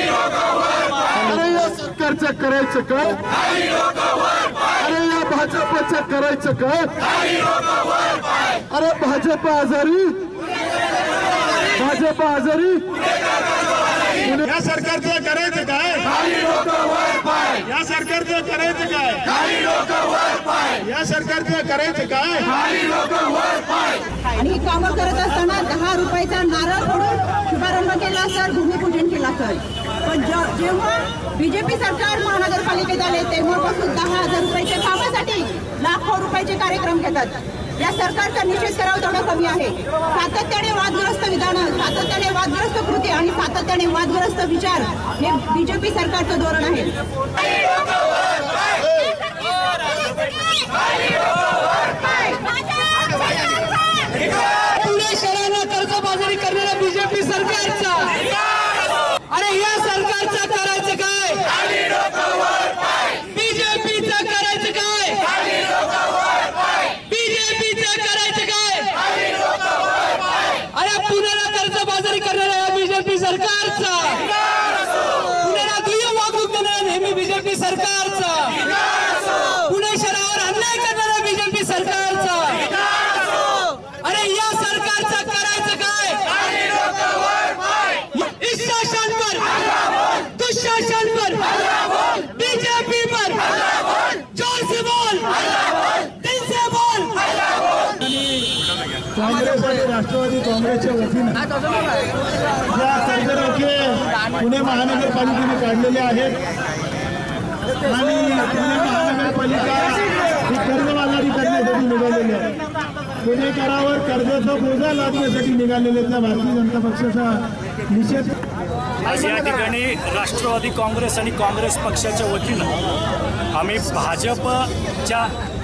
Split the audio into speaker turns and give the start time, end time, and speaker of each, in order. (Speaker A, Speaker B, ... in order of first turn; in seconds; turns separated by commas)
Speaker A: 1.1-3.3, Speaker A: 4.6-7.2, Speaker A: 8.7-10.2, Speaker A: 11.7-13.0, Speaker B: 14.3-23.2, Speaker C: 24.1-47.0, Speaker D: 54.5-97.5, Speaker B: 98.1-98.3, Speaker B: 99.2-101.5, Speaker B: 102.7-106.4, Speaker B: 107.8-112.6, Speaker B: 113.2-118.3, Speaker E: 119.0-122.7, Speaker E: 123.5-125.3